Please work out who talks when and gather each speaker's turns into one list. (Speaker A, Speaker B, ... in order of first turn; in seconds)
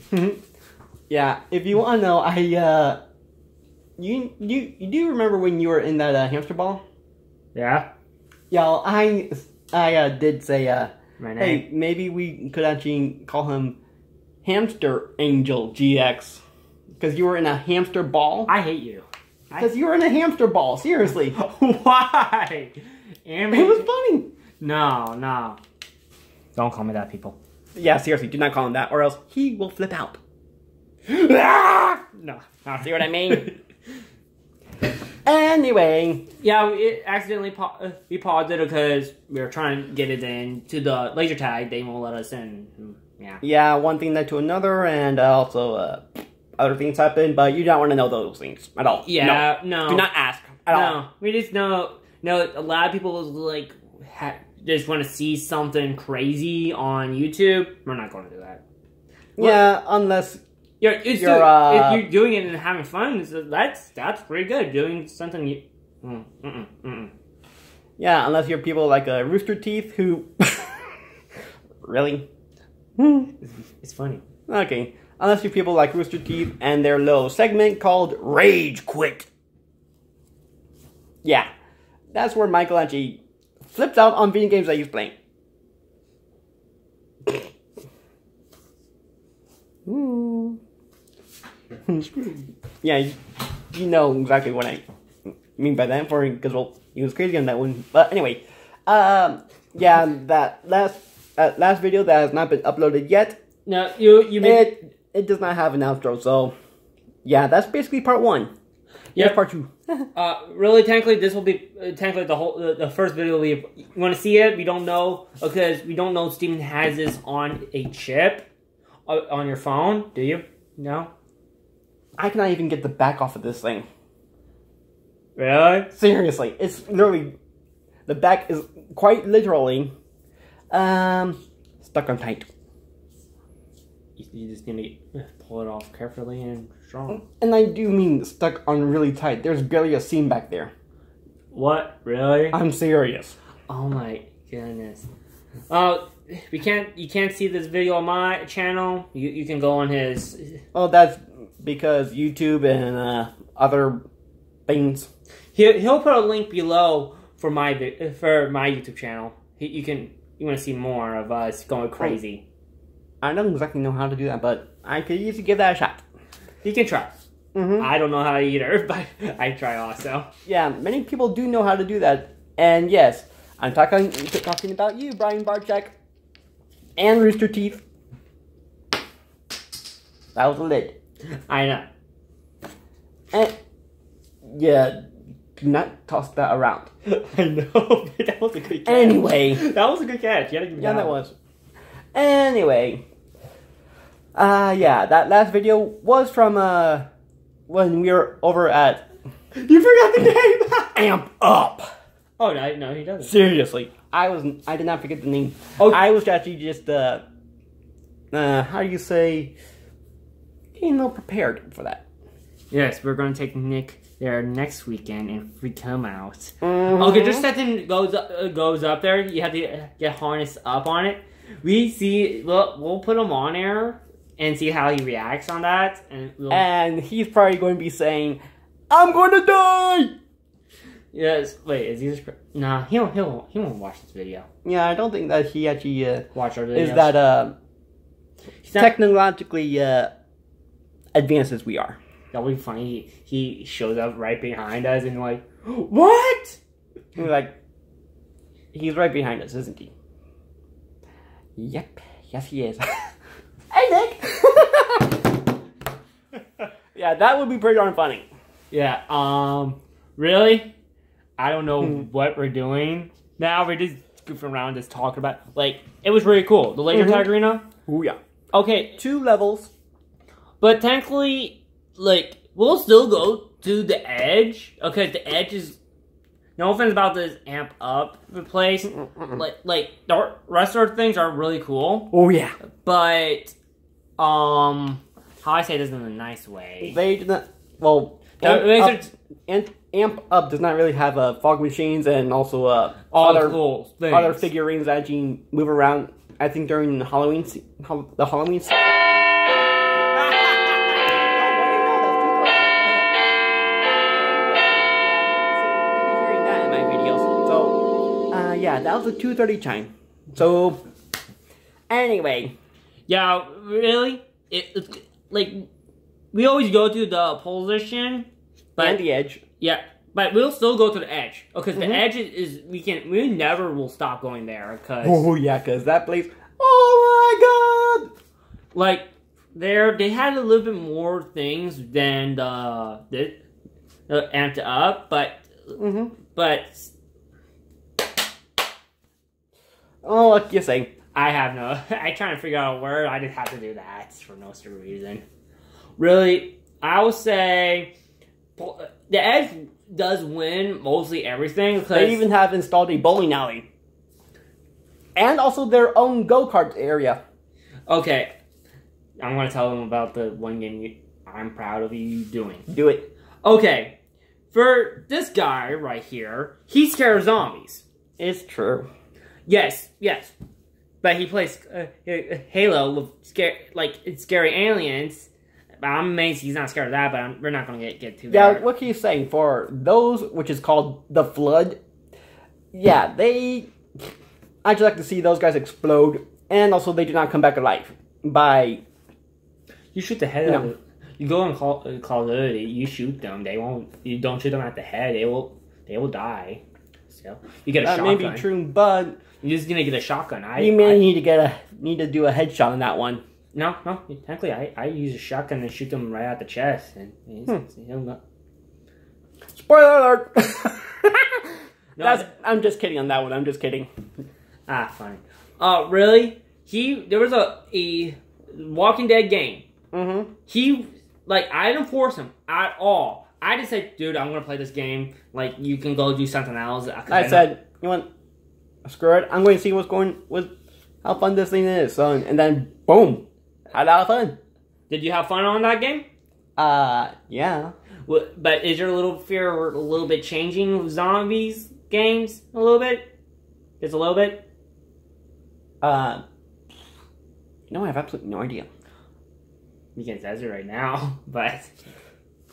Speaker A: 0.1-0.4, 1.1-3.0, 4.0-6.8, 8.5-13.8, 14.4-16.4, 17.0-18.5, 19.6-21.4, 23.5-24.3, 27.8-30.2, 31.1-31.6, 32.8-33.5, 35.2-36.3, 43.4-46.0, 46.6-51.0, 59.4-60.4, 61.2-62.0, 68.0-70.9, 71.8-72.3, 73.0-73.3, 74.5-79.3, 81.2-81.5, 82.1-85.1, 89.9-90.6, 91.9-93.2, 93.7-94.8, 95.5-103.4, 104.4-106.5, 107.2-108.5, 109.2-110.1, 122.2-123.9, 125.9-127.3, 128.1-129.9, 130.7-132.5, 137.1-140.7, 142.5-143.4, 150.7-154.0, 154.7-155.1, 163.2-166.0, 167.6-167.9, 170.5-175.9, 177.0-177.8, 180.3-180.9, 184.4-185.1, 185.6-186.9, 188.9-189.6, 190.8-191.3, 192.1-193.0, 194.3-197.1, 197.7-199.1, 200.9-201.9, 203.2-207.2, 208.3-209.5, 210.8-212.0, 216.6-217.5, 226.5-230.2, 234.7-237.6, 238.8-240.1, 241.2-242.0, 247.2-247.6, 248.7-249.9, 251.6-253.1, 253.7-255.1, 256.9-258.3, 266.9-267.3, 267.9-268.2, 269.0-269.7, 282.1-282.6, 286.8-293.6, 294.1-299.0, 300.2-303.1, 304.1-307.8, 308.3-310.8, 311.9-312.5, 318.8-319.4, 321.8-322.0, 325.0-328.1, 335.8-336.1, 340.0-340.9, 351.9-353.7, 355.2-357.2, 362.7-363.1, 368.2-368.9, 378.3-381.8, 382.7-383.7, 384.6-388.8, 397.8-399.2, 400.6-403.2, 409.5-411.5, 412.0-413.9, 419.9-420.3, 427.1-428.1, 428.9-430.5, 431.0-434.4, 436.6-437.7, 445.8-446.2, 447.7-448.7
Speaker B: 7.5-7.9, 11.2-11.6, 18.5-19.7, 21.1-23.9, 24.6-25.6, 26.6-27.4, 31.3-33.6, 36.4-43.4, 49.0-50.1, 50.7-58.6, 59.4-59.6, 60.8-67.1, 73.4-74.2, 103.7-104.7, 110.2-118.5, 119.1-121.1, 125.4-125.9, 134.2-137.2, 141.5-142.6, 143.7-145.1, 145.7-150.6, 155.6-162.4, 166.6-167.1, 167.8-170.3, 181.5-181.9, 187.1-191.2, 199.6-201.1, 202.4-203.3, 212.7-226.7, 231.1-234.5, 236.3-237.2, 238.6-239.0, 242.3-246.6, 258.7-260.7, 261.4-267.6, 268.5-269.0, 270.6-275.8, 276.6-282.1, 282.8-283.6, 284.2-287.0, 288.4-289.1, 293.1-294.5, 313.1-315.7, 316.3-319.0, 319.6-325.2, 328.7-333.4, 334.1-336.9, 341.1-345.2, 346.0-347.9, 348.6-352.2, 357.9-358.3, 359.2-362.7, 363.4-364.0, 364.5-367.9, 369.5-370.4, 371.0-375.3, 375.8-378.6, 389.9-398.5, 399.4-401.1, 403.5-408.2, 411.9-412.3, 414.7-419.6, 420.5-427.5, 434.9-436.1, 438.1-443.1, 443.8-444.4, 450.0-451.8